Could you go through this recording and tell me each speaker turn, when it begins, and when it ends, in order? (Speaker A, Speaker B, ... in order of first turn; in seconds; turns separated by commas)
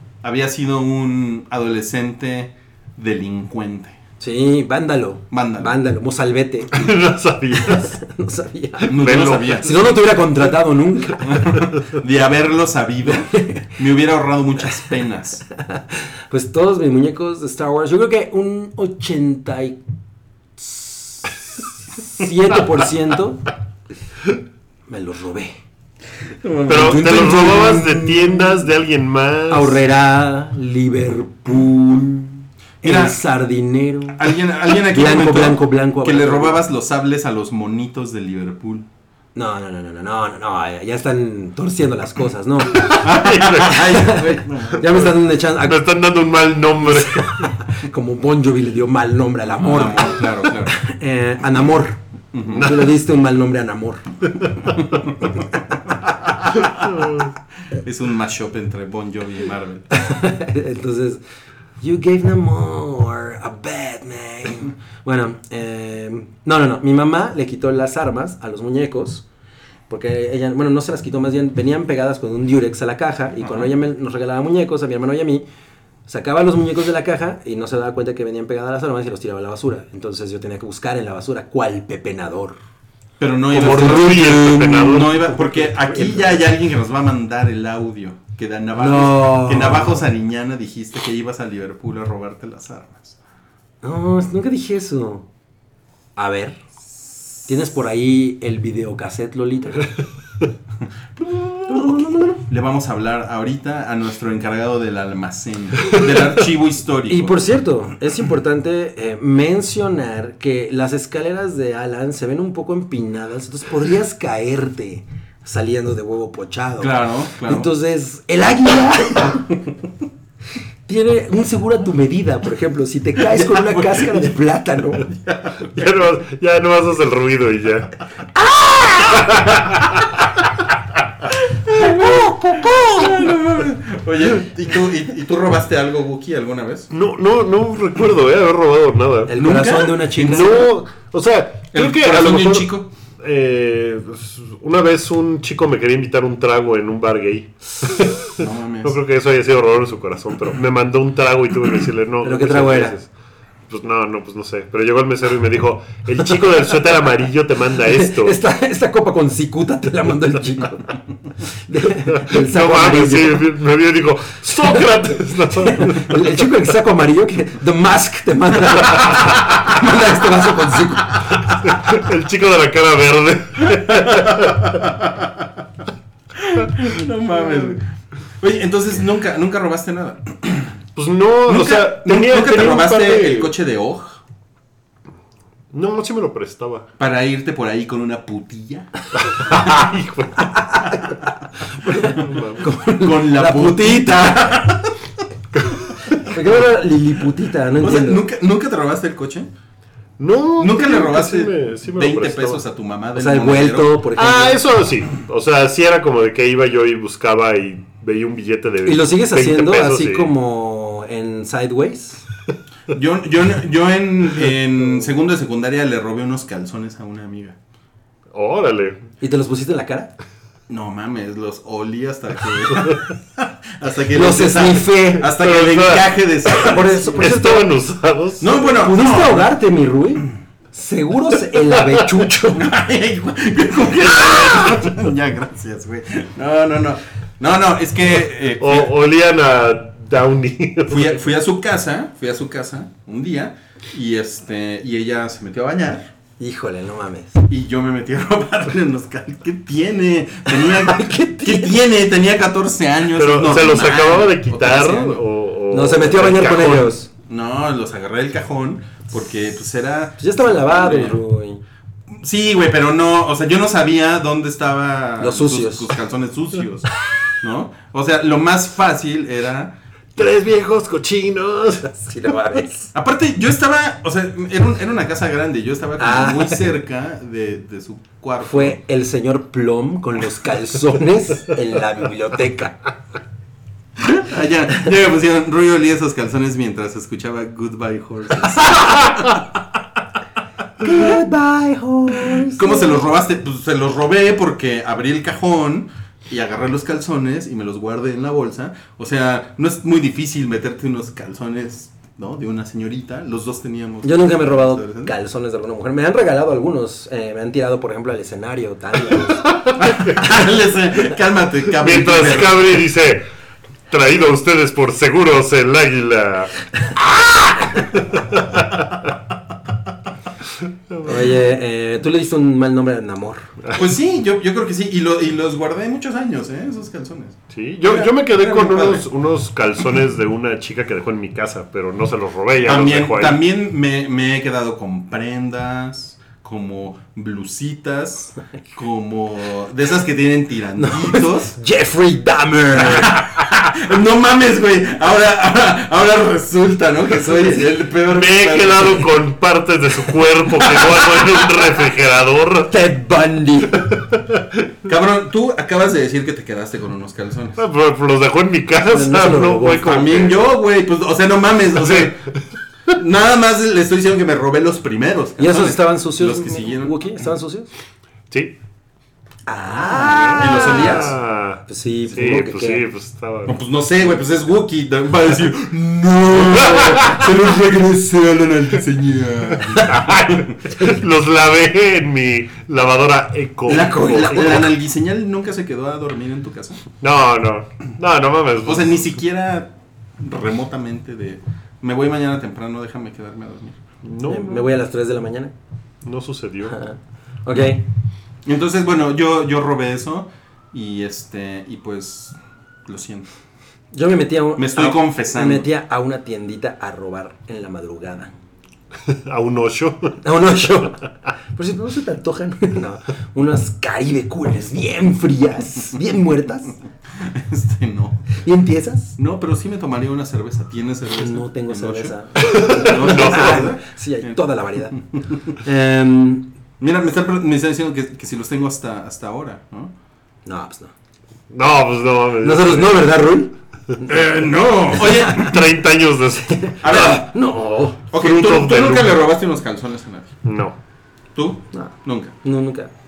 Speaker A: 0.2-4.0, Speaker B: 4.2-6.9, Speaker A: 5.3-5.7, Speaker C: 6.7-8.0, Speaker B: 7.7-11.5, Speaker A: 8.8-9.9, Speaker C: 8.9-9.9, Speaker A: 11.2-15.4, Speaker B: 13.3-13.7, Speaker B: 15.7-19.8, Speaker B: 20.6-23.5, Speaker B: 24.9-25.6, Speaker A: 26.4-27.6, Speaker C: 26.7-29.8, Speaker B: 26.7-28.6, Speaker B: 29.5-34.3, Speaker A: 32.8-33.2, Speaker A: 34.1-38.9, Speaker B: 34.9-36.6, Speaker B: 39.3-43.1, Speaker A: 42.9-45.1, Speaker C: 43.0-44.0, Speaker B: 43.7-45.8, Speaker C: 45.5-47.5, Speaker B: 46.8-52.0, Speaker A: 49.5-50.8, Speaker A: 52.3-52.7, Speaker C: 52.5-52.9, Speaker B: 52.5-54.0, Speaker A: 54.6-59.9, Speaker B: 59.9-61.2, Speaker B: 61.8-69.2, Speaker B: 69.9-75.4, Speaker A: 73.4-73.7, Speaker B: 76.1-82.6, Speaker A: 83.2-93.2, Speaker C: 83.5-85.3, Speaker B: 85.4-86.4, Speaker B: 88.7-90.0, Speaker B: 93.8-95.3, Speaker B: 96.2-96.6, Speaker B: 97.5-99.9, Speaker A: 101.2-107.4, Speaker B: 101.7-102.4, Speaker B: 107.1-119.5, Speaker A: 116.8-117.7, Speaker B: 120.8-125.1, Speaker A: 123.2-124.3, Speaker A: 125.0-125.9, Speaker C: 125.7-128.0, Speaker B: 128.5-129.0, Speaker C: 129.0-129.8, Speaker A: 131.4-136.9, Speaker C: 132.2-133.2, Speaker C: 136.9-139.3, Speaker B: 139.3-140.7, Speaker A: 139.3-140.7, Speaker C: 140.2-153.1, Speaker A: 141.7-142.9, Speaker A: 148.4-149.0, Speaker B: 152.2-153.0, Speaker C: 153.7-158.4, Speaker B: 157.9-160.9, Speaker B: 161.7-163.5, Speaker C: 162.2-166.3, Speaker B: 165.7-171.3, Speaker A: 169.7-170.9, Speaker C: 171.5-174.7, Speaker A: 173.7-175.6, Speaker A: 176.3-177.9, Speaker A: 178.4-180.8, Speaker C: 180.9-183.5, Speaker A: 181.5-184.2, Speaker C: 185.7-186.9, Speaker A: 187.0-188.9, Speaker C: 189.2-190.8, Speaker A: 189.4-189.9, Speaker B: 190.5-191.1, Speaker B: 191.8-194.3, Speaker C: 191.8-192.7, Speaker A: 192.9-195.1, Speaker C: 195.6-195.9, Speaker B: 196.1-198.2, Speaker A: 197.8-199.5, Speaker C: 200.2-202.6, Speaker A: 200.6-204.0, Speaker B: 203.2-204.6, Speaker C: 204.2-210.3, Speaker B: 208.8-212.2, Speaker A: 212.9-217.6, Speaker C: 218.3-219.1, Speaker B: 219.2-220.1, Speaker A: 220.7-227.4, Speaker B: 224.1-225.3, Speaker C: 225.2-228.8, Speaker B: 226.6-227.7, Speaker A: 228.4-229.5, Speaker B: 228.7-232.7, Speaker A: 232.5-238.9, Speaker C: 234.2-234.8, Speaker C: 238.6-241.2, Speaker A: 240.9-246.1, Speaker B: 246.4-247.4, Speaker A: 247.5-255.2, Speaker B: 250.5-251.8, Speaker C: 253.2-257.0, Speaker B: 255.7-257.1, Speaker A: 257.2-261.2, Speaker B: 260.2-261.6, Speaker A: 262.1-266.9, Speaker B: 265.2-265.9, Speaker A: 267.4-269.7, Speaker C: 270.1-272.0, Speaker B: 271.9-272.9, Speaker A: 272.9-278.8, Speaker B: 276.0-276.8, Speaker B: 278.4-282.8, Speaker A: 284.0-289.6, Speaker B: 290.8-293.1, Speaker A: 292.4-305.1, Speaker B: 304.0-309.4, Speaker A: 309.8-312.7, Speaker C: 311.8-313.2, Speaker C: 313.9-318.8, Speaker C: 320.9-321.2, Speaker B: 321.0-323.5, Speaker A: 323.7-329.1, Speaker C: 327.5-333.4, Speaker A: 332.6-341.5, Speaker B: 340.8-343.2, Speaker A: 342.7-349.1, Speaker C: 348.0-352.7, Speaker A: 350.6-351.3, Speaker B: 352.7-353.9, Speaker C: 354.0-354.4, Speaker A: 354.8-357.6, Speaker C: 357.6-360.5, Speaker B: 358.9-360.0, Speaker A: 359.8-362.2, Speaker C: 361.8-362.1, Speaker A: 362.9-367.0, Speaker B: 365.4-367.7, Speaker B: 369.5-372.8, Speaker C: 369.8-373.6, Speaker A: 370.4-371.2, Speaker A: 373.4-380.5, Speaker C: 376.6-377.2, Speaker C: 379.6-384.7, Speaker A: 383.6-386.8, Speaker C: 387.0-389.0, Speaker A: 388.6-393.8, Speaker C: 394.0-394.7, Speaker B: 394.2-395.5, Speaker C: 396.0-396.8, Speaker B: 396.7-397.8, Speaker A: 398.4-403.3, Speaker B: 403.9-408.3, Speaker A: 404.6-405.7, Speaker C: 409.1-410.2, Speaker B: 410.2-411.0, Speaker B: 411.5-416.8, Speaker A: 417.1-418.3, Speaker B: 418.4-419.2, Speaker A: 419.2-424.4, Speaker B: 421.2-425.0, Speaker C: 422.4-423.6, Speaker A: 424.9-425.4, Speaker B: 425.5-426.5, Speaker A: 426.8-429.9, Speaker B: 430.4-430.9, Speaker C: 431.5-433.2, Speaker B: 432.4-435.5, Speaker A: 434.0-435.6, Speaker C: 435.1-437.1, Speaker B: 436.4-438.0, Speaker A: 436.8-437.3, Speaker A: 438.1-440.4, Speaker C: 438.1-439.2, Speaker C: 440.4-440.8, Speaker A: 441.3-442.4, Speaker B: 441.7-442.9